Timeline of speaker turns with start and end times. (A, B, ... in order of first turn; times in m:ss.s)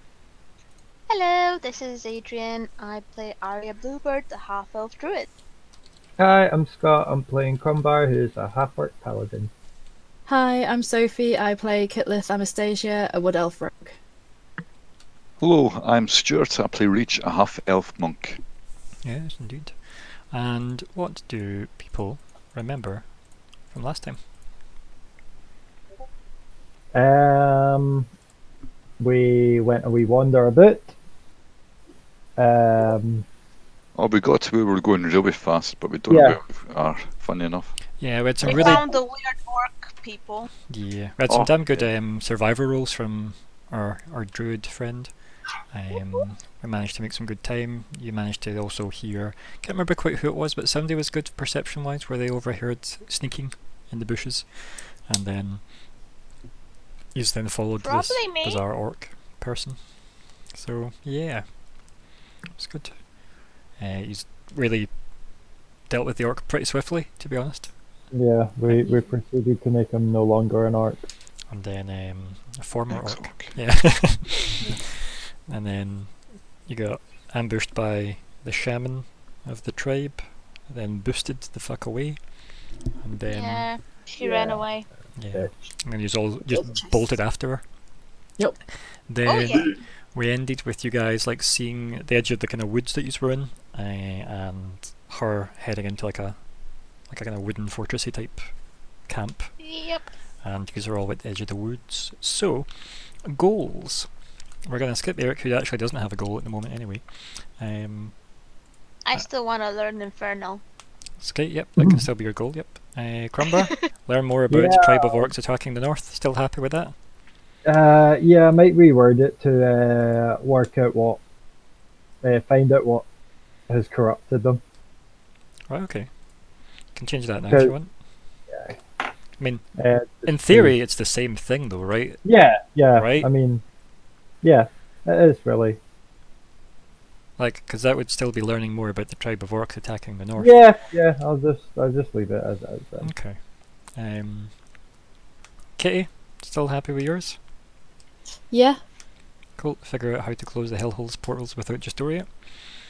0:01.1-0:05.3 A
0:06.2-0:09.5 B
0:10.3-0:14.0 C
0:15.4-0:18.4 D
0:19.0-0:24.2 E
0:26.9-0:28.1 B
0:29.0-0:30.9 B
0:32.4-0:33.3 B
0:34.0-0:37.8 D
0:36.1-0:36.4 B
0:38.0-0:38.8 E
0:38.4-0:40.5 A
0:40.7-0:55.6 E
0:41.3-0:41.9 D
0:45.9-0:46.2 A
0:57.1-1:00.0 E
0:57.8-0:58.6 A
1:00.5-1:01.6 E
1:02.5-1:03.1 E
1:03.8-1:05.0 E
1:05.9-1:07.8 E
1:08.1-1:11.0 B
1:11.5-1:22.4 E
1:12.9-1:13.8 D
1:23.0-1:23.7 E
1:23.3-1:24.9 A
1:24.2-1:24.7 B
1:25.2-1:27.7 E
1:26.5-1:27.1 A
1:28.8-1:36.5 E
1:29.2-1:29.7 A
1:37.0-1:39.6 E
1:39.6-1:40.1 A
1:40.4-1:44.1 E
1:44.7-1:48.1 E
1:49.0-1:50.6 A
1:51.2-1:57.0 E
1:54.5-1:55.3 B
1:57.6-2:01.2 B
2:02.2-2:03.1 B
2:03.7-2:04.6 B
2:05.7-2:06.1 E
2:06.9-2:07.9 E
2:07.5-2:07.8 B
2:08.5-2:08.8 B
2:09.4-2:09.7 E
2:09.8-2:10.8 B
2:10.2-2:12.2 E
2:12.2-2:13.7 B
2:12.9-2:13.3 E
2:14.4-2:15.8 B
2:17.4-2:20.6 E
2:20.4-2:23.2 B
2:23.0-2:24.6 E
2:25.8-2:27.4 E
2:28.5-2:28.8 C
2:29.6-2:32.4 E